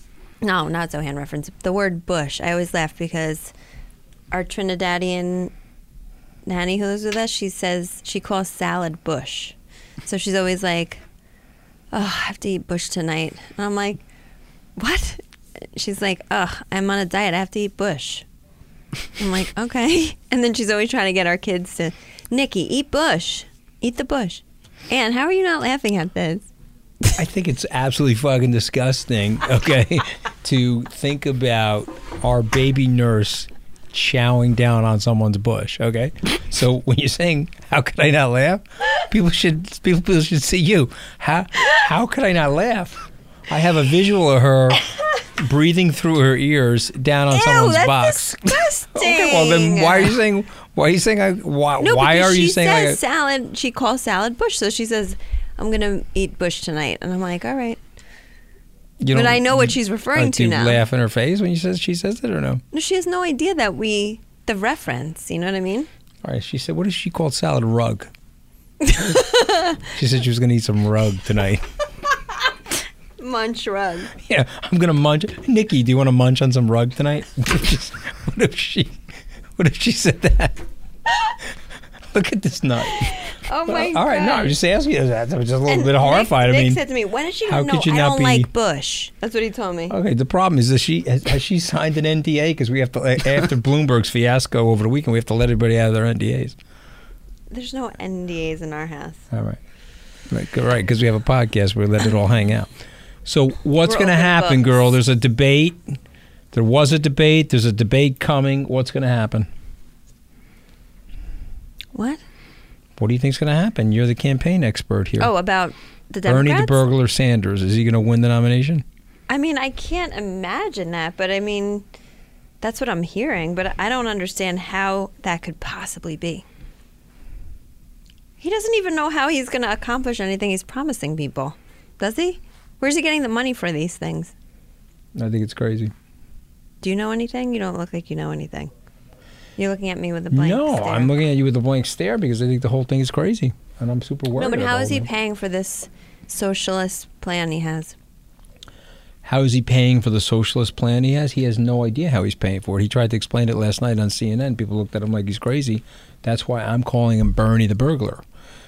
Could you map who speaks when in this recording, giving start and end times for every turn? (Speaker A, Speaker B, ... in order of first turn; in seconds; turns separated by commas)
Speaker A: 0.4-3.5, Speaker A: 4.3-5.5, Speaker A: 6.5-11.0, Speaker A: 11.9-14.0, Speaker A: 14.8-18.3, Speaker A: 19.2-26.5, Speaker B: 27.2-53.0, Speaker A: 47.3-50.2, Speaker A: 51.8-57.8, Speaker B: 59.0-62.6, Speaker A: 59.1-60.8, Speaker A: 62.7-65.9, Speaker B: 66.2-68.1, Speaker A: 68.8-69.8, Speaker B: 69.8-71.7, Speaker A: 73.2-74.1, Speaker B: 74.2-79.0, Speaker B: 79.6-80.7, Speaker B: 82.1-86.8, Speaker A: 83.0-84.6, Speaker A: 85.7-90.0, Speaker B: 87.5-88.5, Speaker B: 89.9-96.6, Speaker A: 97.5-99.2, Speaker B: 99.3-99.6, Speaker B: 100.3-102.7, Speaker B: 103.2-106.0, Speaker A: 103.8-104.9, Speaker B: 106.5-109.5, Speaker A: 111.9-112.2, Speaker B: 113.0-115.3, Speaker A: 115.2-116.8, Speaker B: 116.2-118.8, Speaker A: 119.3-121.9, Speaker A: 122.6-126.5, Speaker A: 128.4-134.3, Speaker B: 135.2-135.9, Speaker A: 136.8-138.7, Speaker A: 139.6-141.1, Speaker B: 140.3-145.1, Speaker A: 144.4-147.9, Speaker B: 149.2-158.2